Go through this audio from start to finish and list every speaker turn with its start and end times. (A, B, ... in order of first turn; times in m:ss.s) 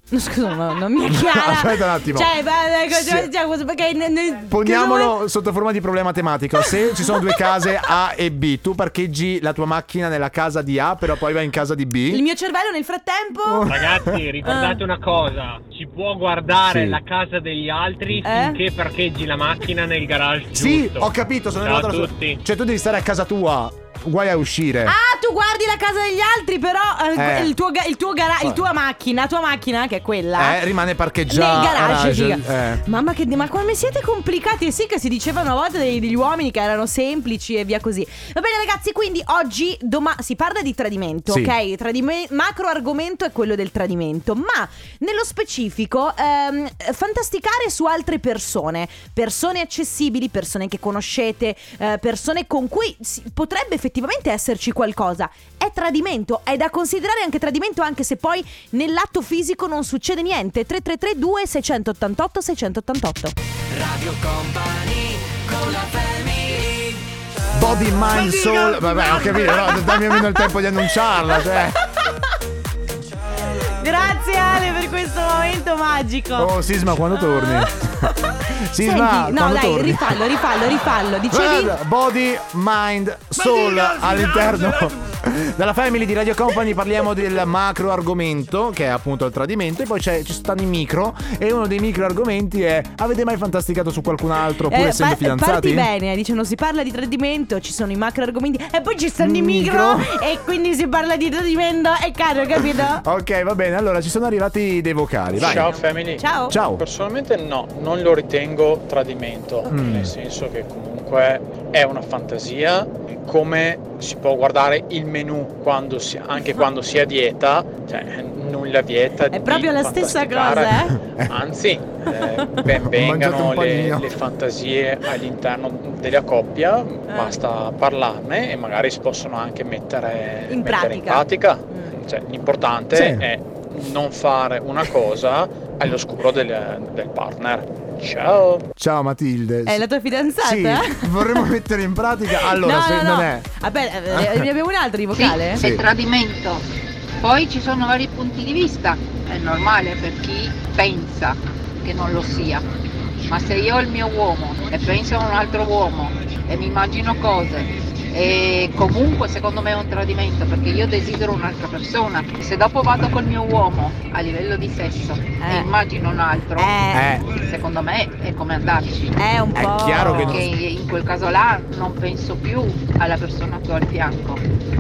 0:00.1-0:05.2 A
0:01.0-0:02.3 B
0:02.9-0:03.3 B
0:04.5-0:12.2 B
0:06.7-0:07.3 A
0:12.1-0:13.7 A
0:13.5-0:14.2 B
0:13.7-0:22.4 C
0:14.4-0:14.8 A
0:16.6-0:17.0 B
0:18.2-0:18.6 A
0:20.5-0:25.0 B
0:24.9-0:30.6 A
0:27.2-0:27.5 B
0:30.4-0:32.8 B
0:31.3-1:03.4 A
0:41.3-0:41.5 B
1:07.5-1:11.8 B
1:08.2-1:10.5 A
1:13.5-1:16.5 A
1:16.4-1:20.2 B
1:18.8-1:21.8 A
1:21.3-1:35.9 B
1:34.7-1:43.0 A
1:39.2-1:40.1 B
1:43.0-1:45.7 B
1:45.4-2:18.7 D
1:45.4-1:46.6 A
1:46.5-1:46.8 B
1:49.7-1:50.1 B
1:59.3-2:01.0 A
2:02.7-2:04.1 B
2:07.1-2:07.4 A
2:10.5-2:12.0 A
2:12.9-2:13.3 B
2:18.8-2:19.8 B
2:19.7-2:21.5 A
2:20.4-2:23.5 B
2:22.4-2:25.6 A
2:24.1-2:24.5 B
2:25.1-2:26.6 E
2:25.6-2:25.9 B
2:27.2-2:32.7 E
2:33.3-2:46.8 E
2:45.4-2:45.7 A
2:46.6-2:47.2 A
2:46.9-2:47.3 B
2:47.3-2:49.2 E
2:49.2-2:50.4 A
2:49.5-2:50.5 B
2:50.2-2:54.4 E